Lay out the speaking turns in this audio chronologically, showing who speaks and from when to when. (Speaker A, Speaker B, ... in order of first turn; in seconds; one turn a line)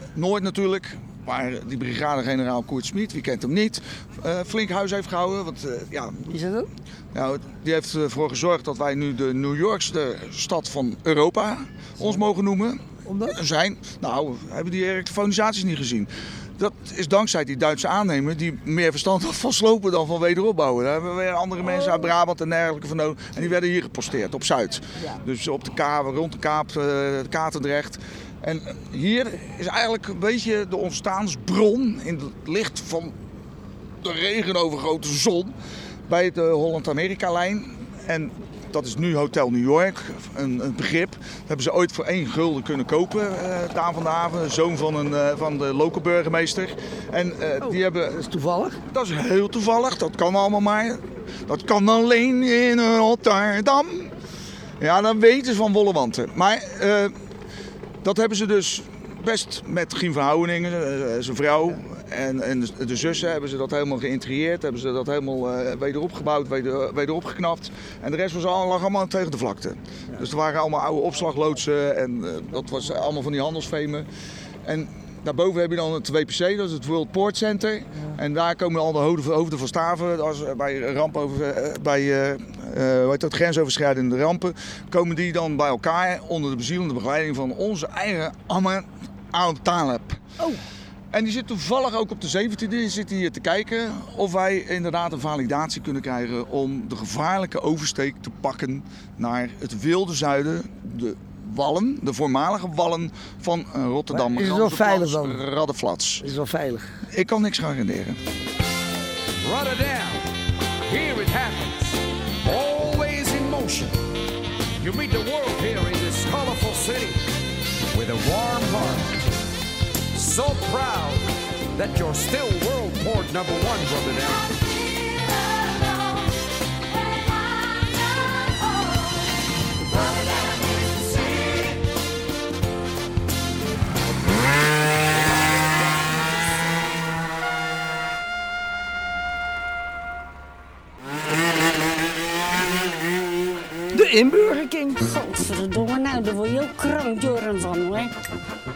Speaker A: 0.1-6.3
Speaker B: 6.3-6.7
Speaker A: 7.1-33.1
Speaker B: 13.1-13.4
Speaker B: 21.6-22.0
Speaker A: 34.0-35.5
Speaker A: 36.1-48.1
Speaker B: 47.6-48.8
Speaker A: 48.9-54.1
Speaker A: 54.8-57.1
Speaker A: 58.0-74.1
Speaker A: 74.6-90.2
Speaker A: 91.1-106.3
Speaker B: 104.1-105.4
Speaker B: 106.2-107.0
Speaker A: 107.1-108.2
Speaker C: 109.4-110.3
Speaker C: 110.9-114.0
Speaker C: 114.8-117.2
Speaker C: 117.9-119.2
Speaker C: 120.1-124.5
Speaker B: 143.9-145.0
Speaker D: 144.9-148.1